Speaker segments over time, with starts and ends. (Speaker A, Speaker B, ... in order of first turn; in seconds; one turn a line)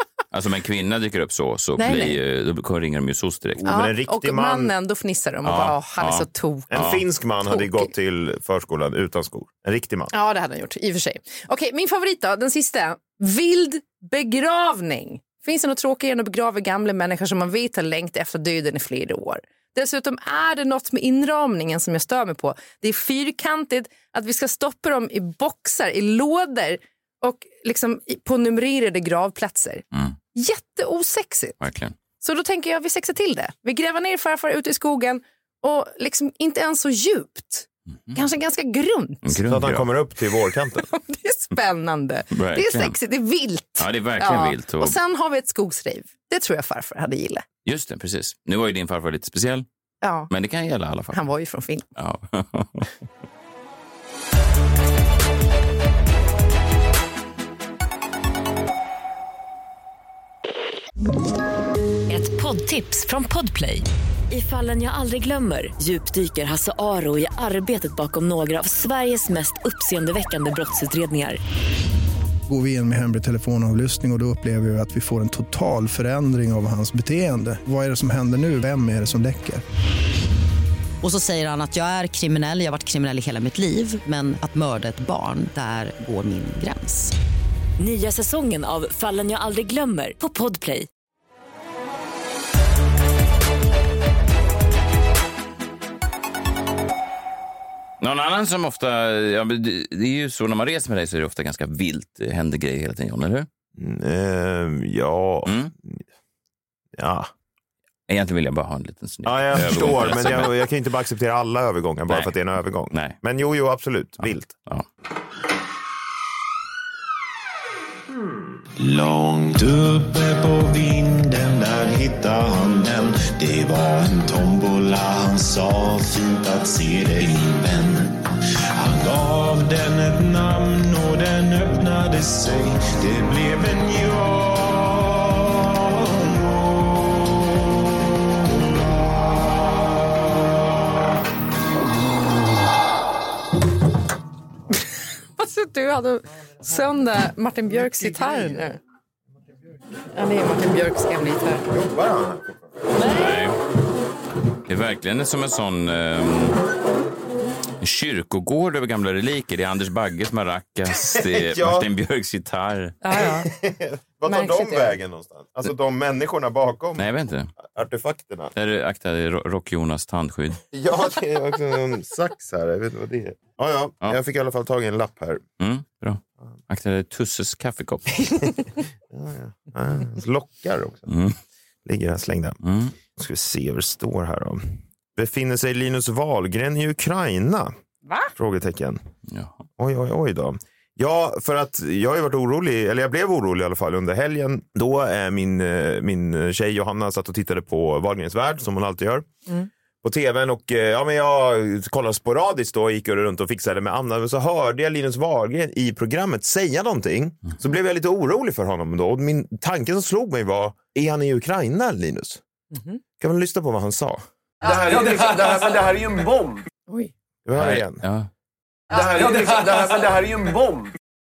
Speaker A: 0.3-3.6
Speaker B: 1.8-2.2
Speaker C: 3.6-4.7
Speaker B: 3.6-6.9
Speaker A: 5.4-7.0
Speaker C: 6.7-10.1
Speaker B: 7.4-7.9
Speaker B: 10.1-31.6
Speaker A: 31.6-31.9
Speaker B: 32.2-39.3
Speaker A: 39.2-39.9
Speaker C: 39.5-40.9
Speaker B: 40.8-47.4
Speaker A: 42.3-43.0
Speaker A: 43.8-44.9
Speaker A: 47.6-49.6
Speaker B: 50.0-50.3
Speaker A: 50.3-51.2
Speaker B: 51.1-51.9
Speaker A: 52.0-52.9
Speaker D: 62.1-71.4
Speaker E: 72.5-79.6
Speaker F: 81.0-87.1
Speaker D: 87.8-90.9
Speaker A: 98.0-103.5
Speaker C: 103.8-106.0
Speaker A: 105.4-105.7
Speaker C: 107.0-107.3
Speaker A: 108.1-110.5
Speaker C: 109.2-114.5
Speaker A: 112.1-112.3
Speaker A: 112.9-113.2
Speaker A: 114.2-114.8
Speaker G: 118.8-137.4
Speaker B: 145.4-148.8
Speaker C: 147.9-148.6
Speaker B: 150.1-151.7
Speaker C: 151.7-152.6
Speaker B: 153.0-153.3
Speaker A: 153.0-153.6
Speaker A: 154.7-156.6
Speaker A: 157.8-163.0
Speaker C: 161.0-161.9
Speaker B: 163.0-163.5
Speaker C: 163.1-167.1
Speaker B: 164.2-164.9
Speaker A: 167.0-167.5
Speaker C: 167.6-168.5
Speaker A: 168.5-170.6
Speaker C: 170.7-175.4
Speaker A: 175.6-178.2
Speaker C: 179.1-181.1
Speaker A: 181.1-181.4
Speaker C: 181.8-182.6
Speaker A: 182.6-182.9
Speaker C: 183.1-187.7
Speaker B: 188.1-188.3
Speaker C: 188.3-189.0
Speaker A: 189.3-189.6
Speaker C: 189.8-199.3
Speaker C: 200.0-212.4
Speaker B: 212.7-213.0
Speaker C: 213.2-214.2
Speaker H: 214.6-216.7
Speaker C: 217.4-218.0
Speaker A: 217.5-218.3
Speaker H: 218.9-220.9